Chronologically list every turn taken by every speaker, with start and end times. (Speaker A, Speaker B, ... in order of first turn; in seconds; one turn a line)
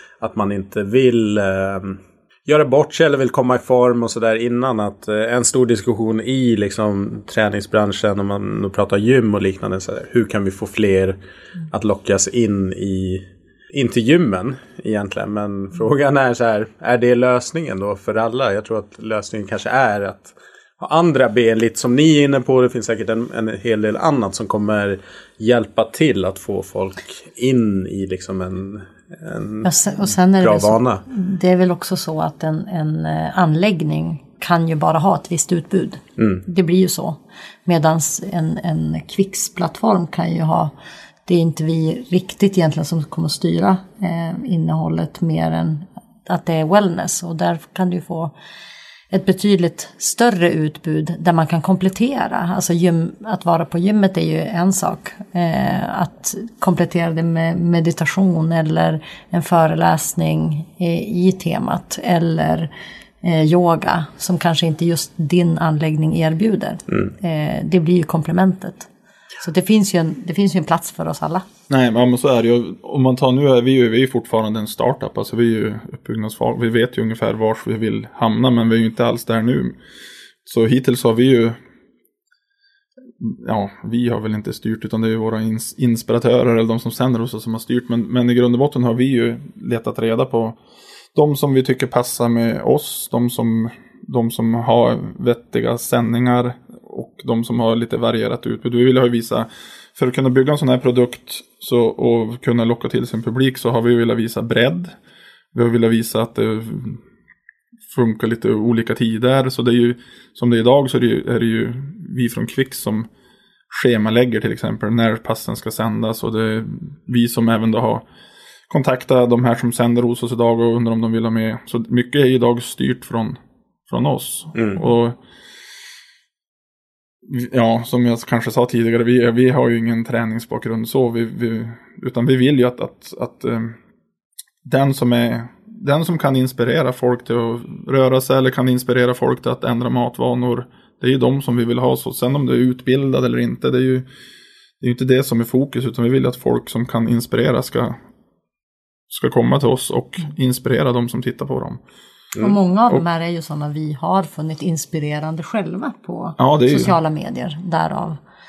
Speaker A: 0.2-11.2
Speaker A: 11.7-31.0
Speaker B: 29.6-40.7
Speaker A: 36.2-36.4
Speaker B: 41.3-48.3
Speaker B: 49.1-62.7
Speaker B: 63.2-68.9
Speaker B: 69.4-71.5
Speaker C: 71.7-79.8
Speaker C: 80.5-81.6
Speaker C: 83.2-90.6
Speaker C: 91.1-104.9
Speaker C: 105.5-107.0
Speaker C: 107.9-113.1
Speaker C: 113.7-118.1
Speaker C: 118.7-125.2
Speaker A: 124.5-124.8
Speaker C: 127.2-133.8
Speaker C: 134.7-144.1
Speaker C: 144.8-148.0
Speaker C: 149.1-151.8
Speaker B: 152.4-158.2
Speaker C: 156.4-156.9